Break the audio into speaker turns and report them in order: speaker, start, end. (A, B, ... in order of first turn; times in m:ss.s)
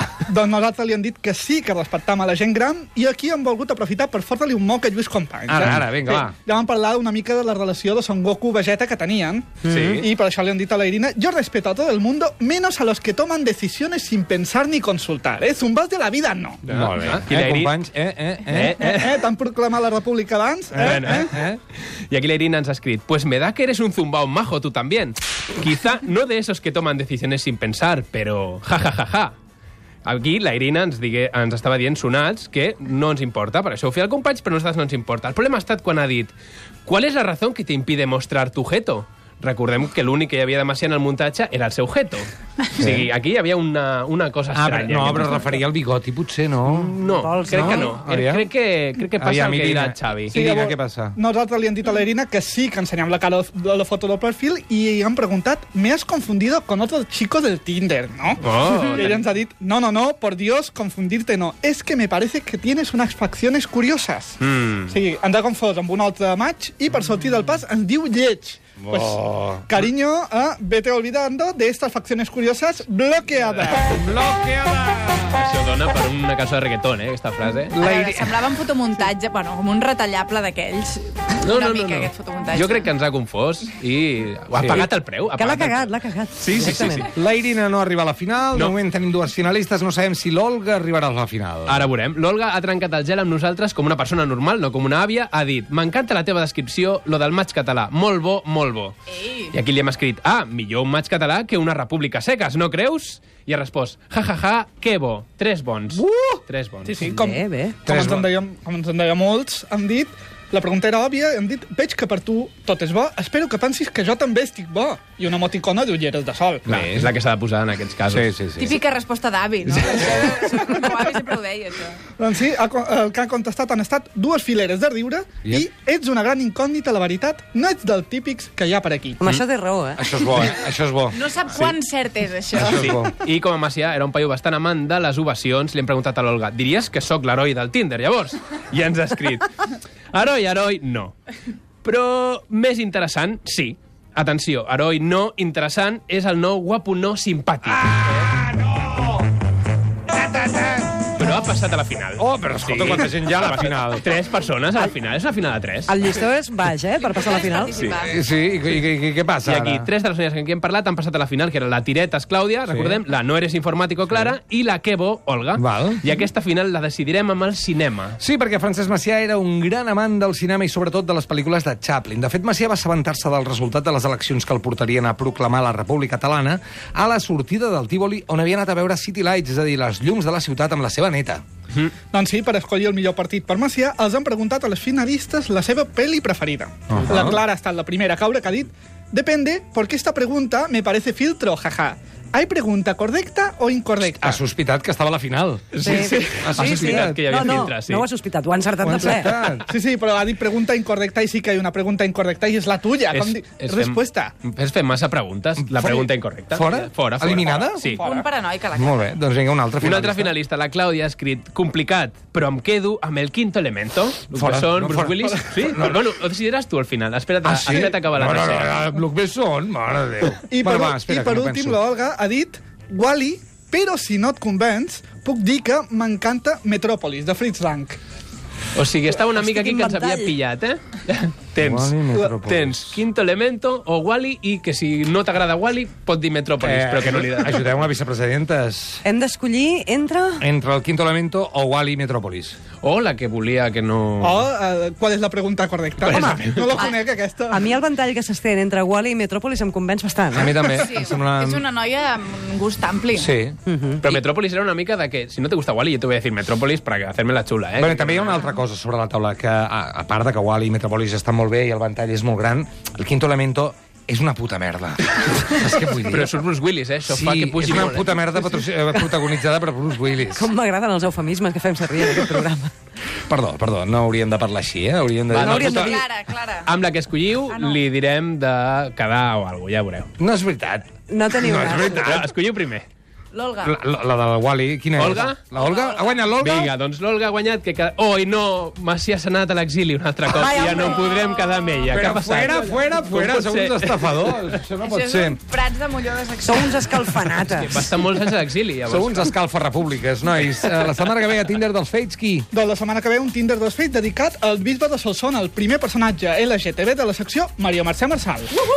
0:00.3-0:16.6 A
0:05.5-0:06.4 B
0:09.6-0:10.0 C
0:09.6-0:10.1 D
0:16.6-0:18.9 B
0:16.7-0:17.8 D
0:18.5-0:19.3 D
0:18.8-0:21.4 A
0:20.7-0:21.6 B
0:20.8-0:29.4 D
0:30.0-0:36.3 D
0:36.9-0:45.6 D
0:42.8-0:43.1 B
0:44.5-0:47.0 B
0:46.7-0:50.4 D
0:46.9-0:48.0 C
0:47.5-0:48.5 B
0:49.2-0:51.2 B
0:50.3-1:14.0 A
0:58.4-0:59.2 D
1:04.4-1:05.0 D
1:08.8-1:09.8 B
1:13.8-1:15.4 B
1:15.3-1:17.8 D
1:17.7-1:18.5 B
1:17.7-1:22.9 E
1:21.4-1:27.1 D
1:24.5-1:24.9 B
1:25.4-1:27.1 C
1:27.1-1:31.9 B
1:31.7-1:47.1 D
1:39.2-1:39.5 E
1:46.0-1:46.4 B
1:46.8-1:56.7 A
1:47.0-1:47.8 C
1:47.9-1:48.3 B
1:56.7-1:57.1 B
1:56.7-1:58.4 D
1:58.1-1:58.8 B
1:58.6-2:02.0 E
1:59.8-2:00.2 D
2:00.5-2:01.0 A
2:02.2-2:09.2 A
2:09.2-2:10.5 C
2:10.0-2:11.2 B
2:11.1-2:12.9 E
2:12.5-2:13.1 B
2:12.6-2:21.2 D
2:21.8-2:28.3 D
2:27.7-2:29.2 B
2:30.1-2:31.1 B
2:31.2-2:35.9 D
2:32.2-2:34.1 B
2:35.9-2:37.8 C
2:37.0-2:38.2 E
2:37.7-2:38.0 D
2:38.0-2:39.9 B
2:39.4-2:48.2 D
2:42.7-2:43.0 B
2:45.6-2:46.1 B
2:48.2-3:01.4 B
3:02.1-3:14.4 A
3:06.9-3:07.4 B
3:14.1-3:15.7 B
3:15.7-3:18.1 D
3:15.8-3:19.4 C
3:16.4-3:17.6 B
3:18.8-3:19.6 B
3:19.6-3:24.3 A
3:23.1-3:28.0 D
3:25.6-3:27.8 B
3:27.4-3:28.3 A
3:27.9-3:29.1 E
3:28.7-3:30.4 B
3:29.8-3:38.9 D
3:34.3-3:36.0 B
3:35.3-3:35.7 A
3:37.4-3:41.8 B
3:40.5-3:48.0 A
3:48.8-3:57.8 D
3:49.4-3:50.3 C
3:51.6-3:53.0 B
3:56.6-3:59.0 B
3:59.0-4:00.4 C
4:00.4-4:02.6 B
4:02.8-4:04.5 D
4:04.2-4:07.7 A
4:06.0-4:06.8 D
4:06.1-4:06.5 C
4:06.7-4:07.0 E
4:07.5-4:10.6 C
4:10.3-4:11.6 B
4:10.6-4:13.3 E
4:13.2-4:13.6 B
4:13.7-4:14.2 C
4:14.0-4:18.4 D
4:17.8-4:26.3 B
4:25.8-4:28.7 D
4:27.1-4:30.5 B
4:30.3-4:32.7 C
4:33.3-4:36.0 B
4:35.3-4:35.9 D
4:35.4-4:36.1 C
4:35.8-4:36.7 E
4:36.7-4:40.1 D
4:37.5-4:37.8 E
4:40.2-4:42.3 B
4:41.1-4:42.1 C
4:42.0-4:42.9 D
4:43.3-4:43.8 E
4:43.6-4:46.7 B
4:45.0-4:45.4 D
4:45.5-4:46.1 E
4:46.4-4:54.6 D
4:50.3-4:51.1 C
4:50.5-4:51.6 E
4:51.9-4:55.4 B
4:54.8-4:56.9 E
4:56.4-4:57.9 C
4:57.5-4:59.3 D
4:58.9-5:02.5 B
5:00.5-5:01.3 D
5:02.5-5:08.5 A